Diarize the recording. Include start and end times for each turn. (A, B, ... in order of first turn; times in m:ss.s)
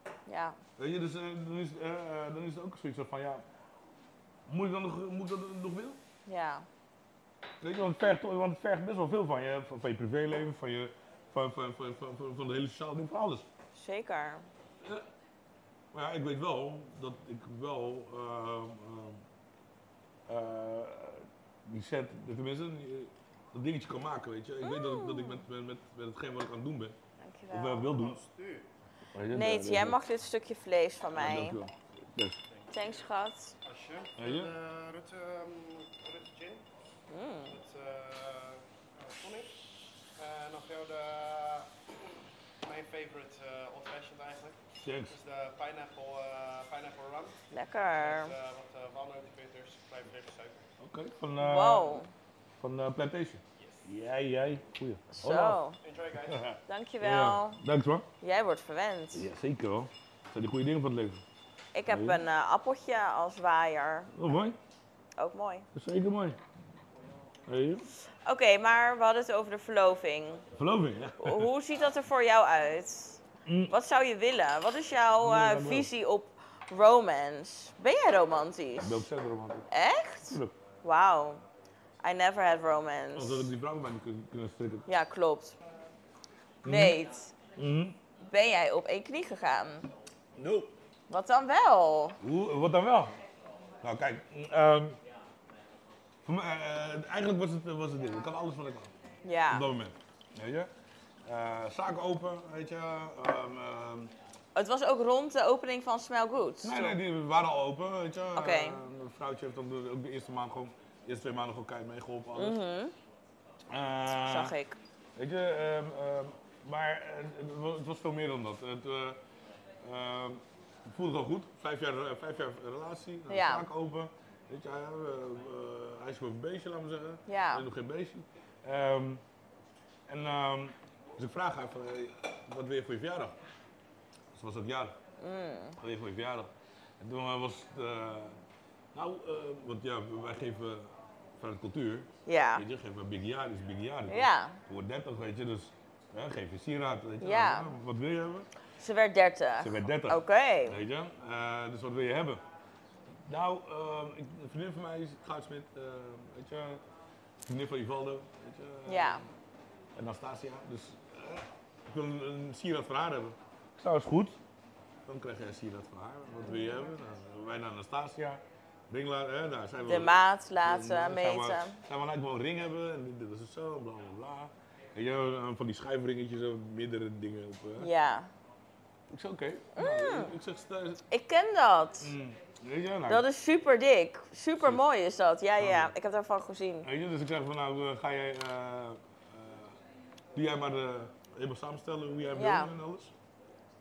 0:00.3-0:00.6 A
0:00.8-0:03.4 B
0:04.5-0:06.0 B
0:06.2-0:06.6 A
0:07.6-0:13.5 B
0:13.7-0:14.5 A
0:15.9-0:19.2 B
0:20.3-0:27.0 B
0:24.6-0:25.4 A
0:27.2-0:27.9 A
0:27.5-0:28.2 B
0:27.8-0:28.7 C
0:29.1-0:30.0 B
0:29.3-0:31.6 A
0:31.1-0:32.4 B
0:32.6-0:33.1 C
0:32.7-0:33.5 A
0:33.6-0:36.6 C
0:34.2-0:34.5 B
0:37.1-0:37.5 A
0:37.5-0:39.5 C
0:40.2-0:41.7 C
0:42.6-0:44.6 C
0:44.8-0:45.1 B
0:45.1-0:47.4 C
0:47.5-0:48.3 A
0:48.0-0:50.6 C
0:50.8-0:52.0 B
0:51.4-0:52.1 A
0:52.6-0:55.6 B
0:55.1-0:55.8 A
0:55.8-0:56.5 C
0:56.2-0:58.1 B
0:56.7-0:57.6 A
0:58.2-0:59.2 A
0:59.1-1:01.2 B
1:01.7-1:04.1 A
1:01.9-1:02.2 B
1:04.1-1:04.6 B
1:05.2-1:05.7 A
1:05.7-1:06.4 B
1:07.4-1:07.8 B
1:08.0-1:10.4 A
1:10.5-1:11.5 B
1:11.2-1:19.0 A
1:13.4-1:13.7 B
1:15.2-1:15.9 B
1:18.8-1:19.7 B
1:19.7-1:21.4 A
1:20.3-1:20.6 B
1:22.0-1:23.5 A
1:23.1-1:24.9 B
1:24.9-1:25.6 A
1:26.6-1:27.0 B
1:26.6-1:27.3 A
1:27.6-1:28.0 B
1:28.2-1:29.9 A
1:30.4-1:30.7 B
1:31.1-1:32.2 A
1:32.2-1:33.1 B
1:33.8-1:35.0 B
1:36.2-1:38.9 B
1:39.2-1:39.6 A
1:39.5-1:40.7 B
1:41.2-1:44.1 B
1:44.5-1:47.0 A
1:46.6-1:52.6 B
1:48.3-1:48.8 A
1:52.3-1:52.9 A
1:53.7-1:54.6 B
1:54.1-1:54.8 A
1:55.2-1:59.2 B
1:59.8-2:09.2 B
2:03.3-2:03.7 A
2:07.3-2:07.6 A
2:10.1-2:13.4 B
2:14.3-2:15.0 B
2:15.2-2:15.8 A
2:15.8-2:18.4 B
2:18.9-2:28.5 B
2:22.2-2:22.6 A
2:24.1-2:24.6 A
2:27.2-2:27.7 A
2:28.8-2:30.8 A
2:29.6-2:32.4 B
2:33.2-2:36.8 B
2:37.4-2:39.3 B
2:38.8-2:39.2 A
2:39.9-2:44.4 B
2:45.0-2:57.9 B
2:49.8-2:51.8 A
2:57.8-2:58.3 A
2:59.1-3:01.0 B
2:59.8-3:00.3 A
3:01.1-3:02.1 A
3:02.0-3:03.2 B
3:03.1-3:06.9 A
3:04.6-3:04.8 B
3:05.6-3:05.9 B
3:06.8-3:09.8 B
3:10.3-3:13.1 B
3:12.3-3:12.7 A